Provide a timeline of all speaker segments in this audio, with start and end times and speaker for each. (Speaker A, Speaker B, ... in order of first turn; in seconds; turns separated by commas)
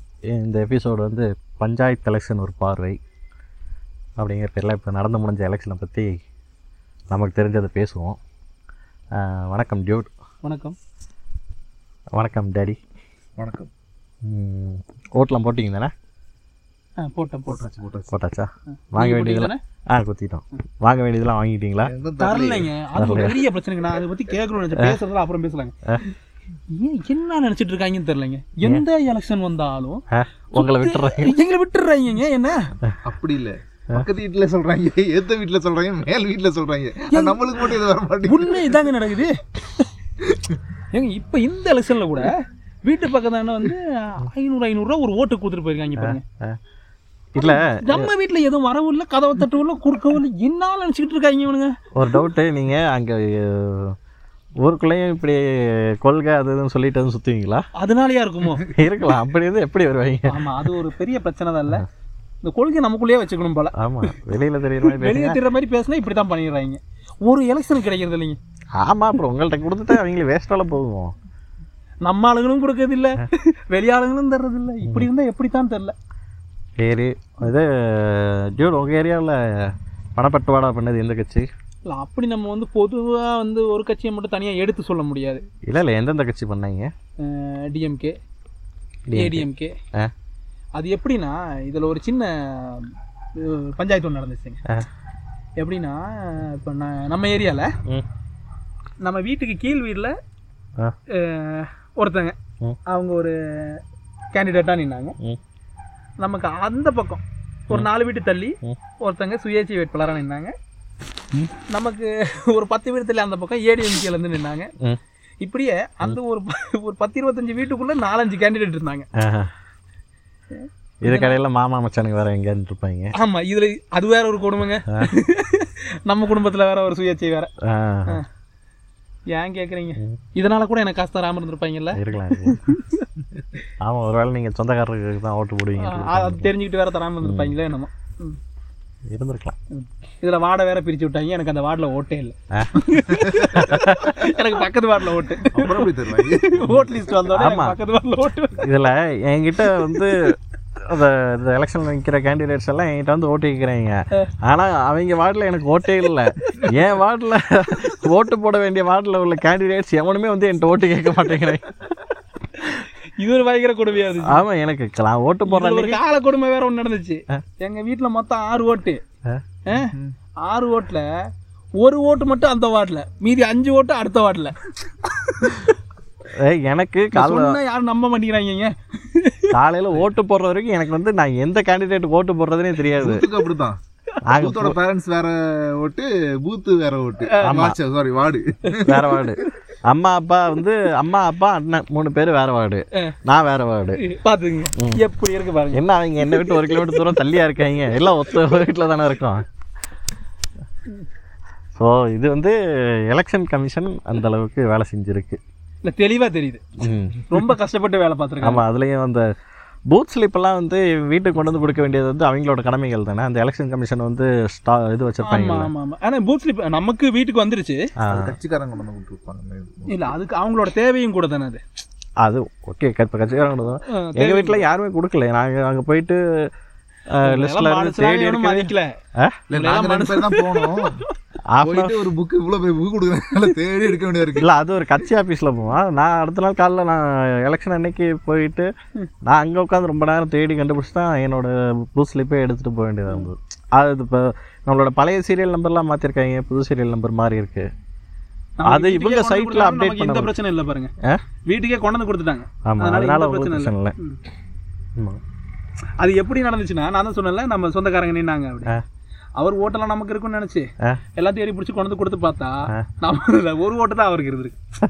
Speaker A: 0.3-3.0, Speaker A: 4.2-6.2, Speaker A: 7.1-8.2, Speaker A: 9.1-10.1, Speaker B: 10.4-10.8, Speaker A: 12.2-12.8, Speaker C: 13.4-13.7, Speaker A: 14.2-15.9, Speaker B: 17.0-17.7, Speaker C: 17.5-18.2, Speaker A: 18.1-21.9, Speaker B: 18.9-19.6, Speaker C: 21.8-22.7, Speaker B: 22.2-25.8, Speaker A: 23.0-23.4, Speaker B: 26.7-30.0, Speaker A: 30.1-31.4, Speaker B: 30.5-32.7, Speaker C: 33.0-38.8, Speaker B: 37.1-37.4, Speaker B: 38.2-39.9, Speaker B: 40.9-46.2, Speaker A: 46.0-46.6, Speaker A: 47.3-48.1, Speaker B: 47.4-51.8, Speaker A: 52.0-54.0, Speaker A: 54.6-57.7, Speaker B: 57.8-58.7, Speaker A: 58.6-60.5, Speaker B: 60.3-61.9, Speaker B: 62.4-63.8, Speaker A: 63.8-65.4, Speaker B: 64.8-68.4, Speaker A: 68.8-71.2, Speaker B: 72.0-76.0, Speaker A: 76.8-81.5, Speaker B: 81.9-85.4, Speaker A: 85.7-86.9, Speaker B: 87.2-88.2, Speaker A: 89.1-90.1, Speaker B: 89.1-89.8, Speaker B: 90.8-94.6, Speaker B: 95.6-97.7, Speaker B: 99.0-100.1, Speaker B: 101.1-103.8, Speaker B: 104.3-105.2, Speaker B: 106.2-110.5, Speaker B: 111.7-114.7, Speaker B: 115.4-119.1, Speaker A: 119.2-119.5, Speaker B: 120.5-121.4, Speaker A: 121.0-123.1, Speaker B: 123.1-127.5, Speaker A: 124.9-125.1, Speaker A: 127.6-128.2, Speaker B: 129.3-133.1, Speaker A: 131.9-132.7, Speaker A: 133.8-136.5, Speaker B: 135.8-138.4, Speaker A: 137.2-137.6, Speaker A: 139.1-139.6, Speaker B: 139.7-148.7, Speaker A: 142.5-142.8, Speaker C: 143.1-143.6, Speaker A: 143.4-144.4, Speaker C: 145.5-146.8, Speaker A: 146.7-147.8, Speaker A: 148.6-161.8, Speaker B: 162.6-164.4, Speaker A: 164.2-166.0, Speaker B: 165.5-169.0, Speaker B: 169.7-171.2, Speaker C: 169.7-170.2, Speaker B: 171.8-175.7, Speaker A: 176.3-177.6, Speaker B: 177.1-179.6, Speaker A: 179.5-183.3, Speaker C: 182.9-183.8, Speaker A: 184.2-184.8, Speaker C: 184.3-189.2, Speaker B: 187.2-187.7, Speaker A: 187.4-187.8, Speaker A: 188.8-194.0, Speaker B: 194.0-197.2, Speaker A: 194.8-195.0, Speaker A: 195.7-199.5, Speaker A: 201.8-205.4, Speaker B: 205.8-206.6, Speaker A: 206.8-207.5, Speaker B: 207.3-208.6, Speaker A: 208.4-209.3, Speaker A: 209.9-215.7, Speaker B: 215.2-217.9, Speaker A: 218.0-218.3, Speaker C: 218.1-220.2, Speaker B: 219.9-221.6, Speaker A: 222.2-226.5, Speaker B: 223.9-224.7, Speaker A: 227.1-229.4, Speaker B: 227.2-228.9, Speaker C: 229.5-231.0, Speaker B: 229.5-231.1, Speaker A: 231.5-232.1, Speaker C: 231.6-234.5, Speaker A: 234.4-238.7, Speaker A: 239.2-247.7, Speaker B: 248.6-250.9, Speaker A: 248.7-250.3, Speaker B: 251.5-254.2, Speaker A: 252.7-253.9, Speaker B: 256.0-258.8, Speaker B: 259.4-264.6